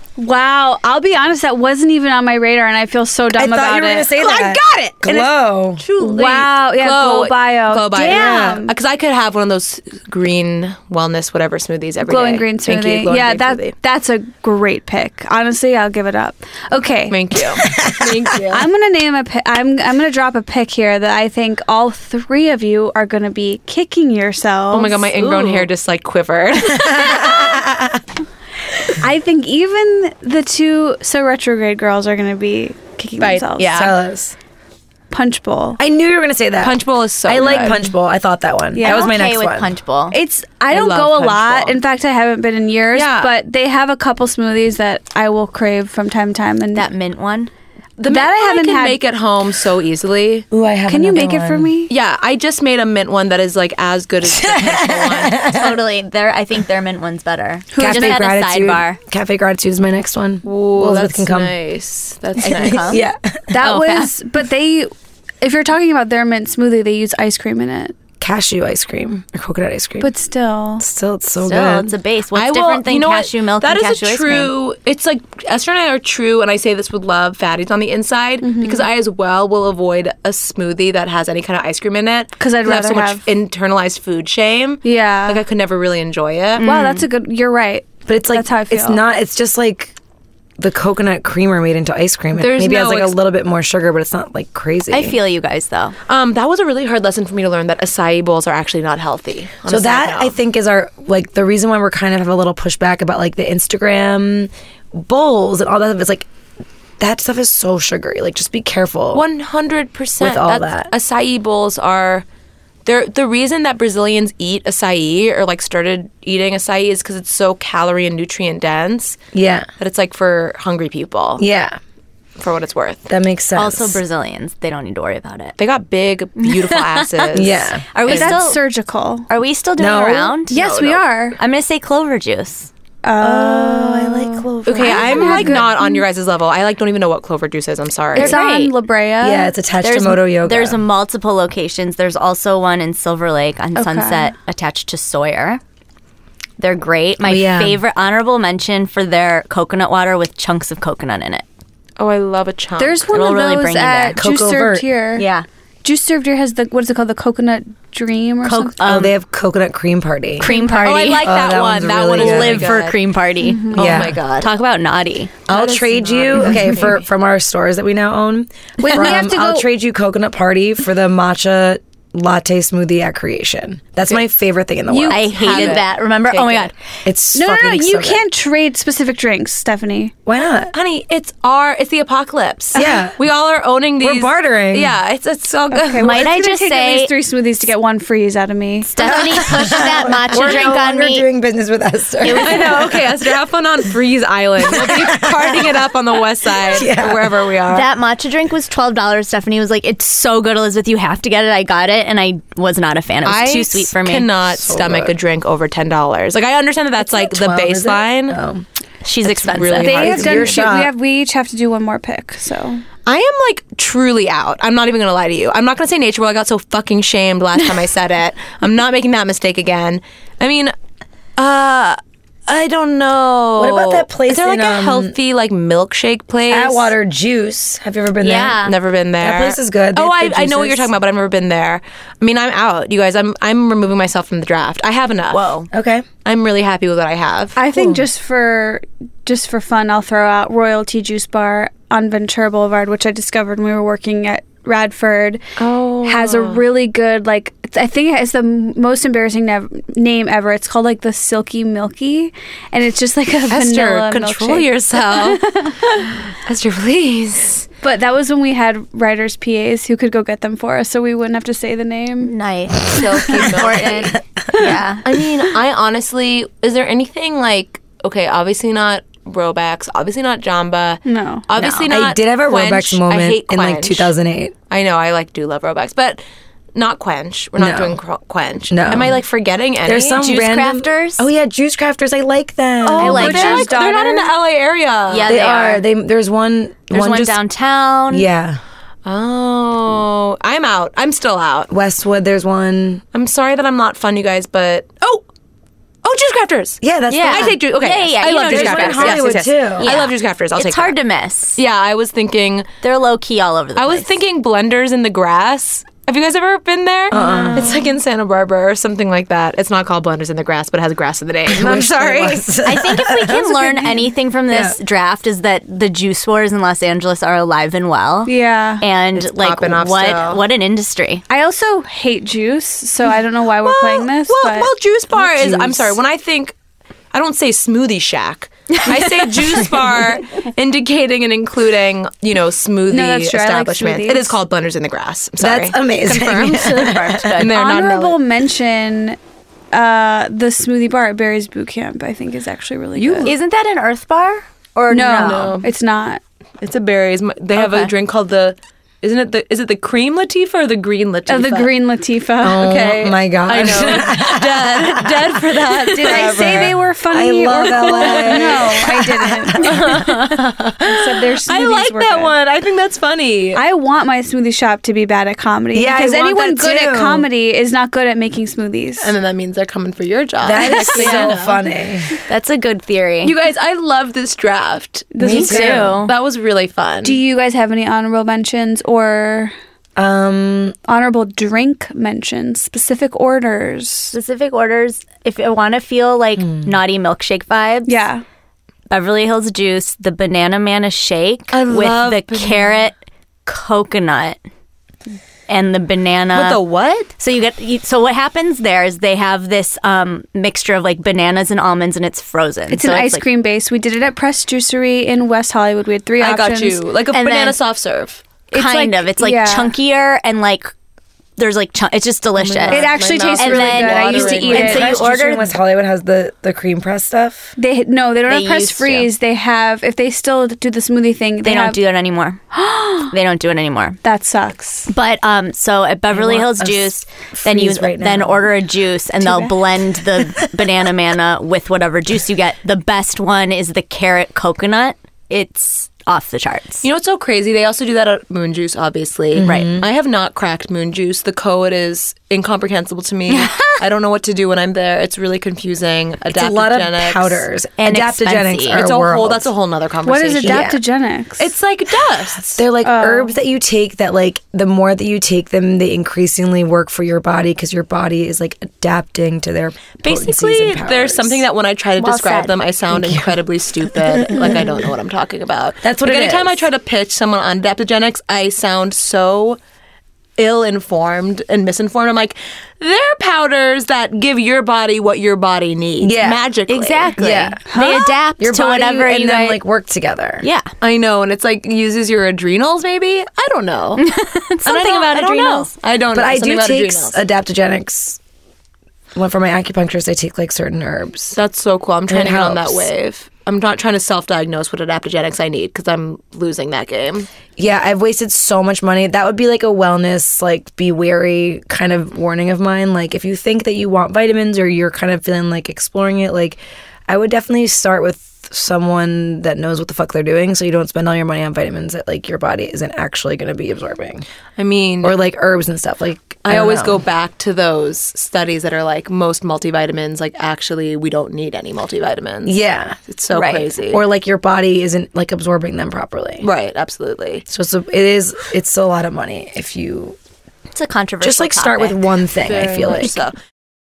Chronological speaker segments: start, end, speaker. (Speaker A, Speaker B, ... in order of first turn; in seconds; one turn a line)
Speaker A: 0.2-4.2
Speaker B: 3.3-5.8
Speaker C: 4.2-13.7
Speaker A: 6.0-8.7
Speaker B: 8.1-8.6
Speaker A: 12.1-17.2
Speaker C: 17.1-18.7
Speaker B: 17.6-18.2
Speaker A: 18.5-25.1
Speaker C: 24.7-27.7
Speaker D: 25.2-25.7
Speaker B: 26.7-28.0
Speaker A: 28.9-33.9
Speaker C: 33.2-34.0
Speaker B: 33.7-34.3
Speaker A: 35.1-35.8
Speaker B: 35.8-39.7
Speaker C: 36.6-37.8
Speaker A: 38.7-39.2
Speaker D: 38.8-40.2
Speaker A: 40.1-46.9
Speaker C: 40.7-41.8
Speaker C: 42.9-43.3
Speaker D: 46.7-47.5
Speaker C: 48.0-50.5
Speaker A: 48.0-49.0
Speaker B: 50.5-51.7
Speaker A: 50.9-51.9
Speaker C: 51.9-55.6
Speaker B: 54.2-55.8
Speaker D: 55.5-59.0
Speaker A: 57.7-58.2
Speaker B: 57.8-61.5
Speaker C: 60.4-63.0
Speaker D: 62.4-63.0
Speaker B: 62.5-63.4
Speaker A: 63.5-68.0
Speaker D: 63.6-64.1
Speaker B: 68.2-70.1
Speaker A: 70.0-70.8
Speaker B: 70.8-71.9
Speaker D: 71.4-74.5
Speaker C: 72.3-86.7
Speaker A: 78.4-78.9
Speaker A: 82.4-83.2
Speaker A: 84.8-85.4
Speaker D: 86.6-87.1
Speaker A: 86.6-89.0
Speaker B: 88.1-90.0
Speaker B: 90.6-95.2
Speaker C: 92.4-93.1
Speaker D: 94.9-96.0
Speaker C: 96.1-100.4
Speaker B: 99.7-106.3
Speaker B: 107.0-109.2
Speaker C: 109.1-112.3
Speaker B: 110.2-110.9
Speaker C: 112.9-119.2
Speaker B: 119.3-119.7
Speaker C: 119.8-121.5
Speaker B: 121.4-121.8
Speaker C: 122.4-123.1
Speaker B: 123.1-124.0
Speaker D: 123.5-125.5
Speaker C: 125.6-128.4
Speaker D: 126.4-128.6
Speaker B: 127.3-127.9
Speaker A: 128.0-129.3
Speaker D: 129.3-130.5
Speaker B: 129.8-130.4
Speaker C: 130.5-131.0
Speaker A: 130.5-131.4
Speaker D: 131.4-132.7
Speaker A: 133.0-136.0
Speaker B: 133.2-135.7
Speaker C: 134.6-138.4
Speaker D: 134.9-135.6
Speaker D: 138.1-138.7
Speaker A: 138.1-139.5
Speaker B: 139.2-140.8
Speaker D: 139.8-145.6
Speaker A: 143.8-144.3
Speaker D: 146.6-151.4
Speaker B: 147.2-147.8
Speaker C: 152.0-153.2
Speaker A: 152.8-155.3
Speaker D: 153.1-154.2
Speaker B: 154.2-154.9
Speaker D: 155.2-155.4
Speaker A: 155.8-158.9
Speaker D: 158.4-159.1
Speaker B: 158.8-160.5
Speaker D: 160.4-161.4
Speaker A: 160.4-161.1
Speaker C: 160.8-163.0
Speaker B: 161.2-162.8
Speaker D: 162.1-165.3
Speaker A: 163.4-163.8
Speaker C: 163.7-164.5
Speaker B: 163.7-164.2
Speaker C: 165.5-167.0
Speaker B: 165.5-175.8
Speaker A: 168.8-169.7
Speaker A: 174.9-175.2
Speaker D: 175.1-176.7
Speaker C: 175.1-176.7
Speaker B: 177.1-178.2
Speaker A: 177.3-180.1
Speaker B: 180.3-180.7
Speaker C: 180.7-186.3
Speaker B: 182.7-183.2
Speaker B: 184.0-184.9
Speaker A: 185.7-189.4
Speaker D: 186.0-187.1
Speaker D: 188.9-191.2
Speaker B: 189.0-193.1
Speaker D: 192.2-192.9
Speaker C: 192.2-197.9
Speaker B: 194.6-195.9
Speaker B: 196.6-197.4
Speaker D: 197.7-204.3
Speaker C: 203.2-208.4
Speaker B: 204.5-205.1
Speaker B: 207.0-208.6
Speaker D: 209.0-210.3
Speaker C: 209.2-210.6
Speaker A: 209.8-212.8
Speaker B: 209.8-210.9
Speaker C: 213.1-220.7
Speaker C: 221.4-226.9
Speaker B: 223.6-225.1
Speaker B: 226.5-230.9
Speaker D: 228.2-228.7
Speaker C: 228.6-235.5
Speaker D: 235.3-235.7
Speaker B: 235.7-236.1
Speaker C: 236.2-237.6
Speaker A: 237.6-245.4
Speaker C: 245.6-246.6
Speaker A: 246.0-256.2
Speaker C: 253.5-255.5
Speaker C: 256.3-257.7
Speaker A: 257.8-262.3
Speaker D: 262.2-265.0
Speaker C: 262.8-264.1
Speaker B: 263.3-264.7
Speaker C: 265.0-274.1
Speaker A: 271.1-271.5
Speaker D: 271.6-271.9
Speaker B: 271.9-274.5
Speaker C: 274.7-276.2
Speaker C: 276.7-280.2
Speaker B: 277.6-278.0
Speaker B: 278.7-279.2
Speaker B: 279.8-283.5
Speaker D: 280.2-281.3
Speaker C: 282.8-285.4
Speaker D: 283.0-283.7
Speaker A: 283.0-284.3
Speaker D: 285.1-285.8
Speaker B: 285.3-287.4
Speaker D: 286.9-288.3
Speaker B: 288.1-288.6
Speaker C: 289.1-291.7
Speaker B: 291.7-293.0
Speaker C: 293.1-295.2
Speaker C: 296.0-301.0
Speaker B: 296.8-297.6
Speaker D: 297.1-301.6
Speaker B: 298.4-299.9
Speaker C: 301.6-302.7
Speaker D: 302.8-304.1
Speaker C: 303.8-312.5
Speaker B: 307.1-307.9
Speaker D: 307.1-307.7
Speaker B: 311.5-313.6
Speaker D: 312.6-321.2
Speaker A: 313.3-314.1
Speaker B: 314.5-314.8
Speaker A: 318.3-318.8
Speaker C: 319.1-320.4
Speaker A: 321.3-324.7
Speaker C: 323.6-326.6
Speaker B: 325.1-326.0
Speaker C: 327.1-336.7
Speaker D: 328.8-329.6
Speaker A: 332.9-334.3
Speaker B: 335.4-337.5
Speaker D: 336.1-337.5
Speaker C: 337.2-338.2
Speaker A: 337.5-339.2
Speaker A: 339.7-343.3
Speaker C: 342.9-343.4
Speaker D: 343.2-345.5
Speaker A: 344.9-346.2
Speaker C: 345.0-345.7
Speaker C: 346.6-351.7
Speaker D: 347.6-347.9
Speaker A: 351.3-352.8
Speaker B: 352.4-359.9
Speaker C: 352.6-356.7
Speaker A: 356.0-359.9
Speaker C: 357.8-358.7
Speaker C: 359.6-363.6
Speaker A: 360.8-362.3
Speaker A: 363.6-369.1
Speaker B: 365.7-367.3
Speaker C: 369.0-371.6
Speaker B: 370.4-372.1
Speaker D: 370.8-371.3
Speaker D: 372.3-373.3
Speaker C: 373.2-377.2
Speaker A: 375.1-375.9
Speaker B: 375.2-376.0
Speaker D: 375.2-376.1
Speaker A: 377.0-379.5
Speaker B: 379.9-380.8
Speaker A: 380.9-384.1
Speaker D: 384.1-388.0
Speaker B: 386.4-386.8
Speaker A: 387.9-388.2
Speaker D: 388.9-394.4
Speaker C: 391.5-392.9
Speaker D: 395.5-396.6
Speaker C: 396.3-397.1
Speaker D: 397.2-403.2
Speaker A: 402.7-406.8
Speaker C: 406.2-408.9
Speaker D: 407.1-407.6
Speaker D: 408.5-410.7
Speaker A: 408.6-409.7
Speaker D: 411.4-415.5
Speaker C: 412.4-415.1
Speaker A: 412.7-415.0
Speaker B: 414.5-417.6
Speaker A: 417.6-421.8
Speaker D: 418.3-419.1
Speaker D: 421.4-422.4
Speaker A: 422.5-423.1
Speaker D: 423.1-424.0
Speaker A: 424.0-424.9
Speaker D: 424.9-436.8
Speaker B: 426.1-428.5
Speaker A: 429.2-429.6
Speaker B: 430.2-430.9
Speaker C: 436.8-447.4
Speaker B: 439.3-439.9
Speaker D: 439.4-439.7
Speaker D: 443.3-443.8
Speaker B: 446.3-449.5
Speaker D: 447.8-448.8
Speaker C: 448.7-450.7
Speaker A: 450.1-451.5
Speaker B: 450.4-450.8
Speaker C: 451.4-452.6
Speaker B: 452.4-461.4
Speaker A: 452.8-453.3
Speaker C: 460.0-469.6
Speaker D: 462.0-462.5
Speaker B: 462.9-463.3
Speaker B: 463.9-464.8
Speaker B: 465.8-466.7
Speaker C: 470.4-477.2
Speaker B: 476.0-476.5
Speaker D: 476.7-479.6
Speaker B: 477.2-477.6
Speaker A: 477.7-478.2
Speaker B: 478.4-480.4
Speaker D: 480.4-480.7
Speaker C: 480.8-484.0
Speaker D: 484.0-485.7
Speaker C: 484.6-487.2
Speaker B: 486.1-488.2
Speaker B: 489.1-491.4
Speaker C: 491.3-497.3
Speaker B: 492.1-492.9
Speaker B: 497.6-514.3
Speaker C: 514.6-515.2
Speaker B: 515.0-517.0
Speaker C: 516.4-524.0
Speaker B: 522.5-523.0
Speaker D: 523.3-523.7
Speaker B: 523.9-526.5
Speaker C: 526.4-527.5
Speaker B: 527.5-530.2
Speaker D: 530.7-532.0
Speaker B: 531.2-533.2
Speaker C: 532.4-533.3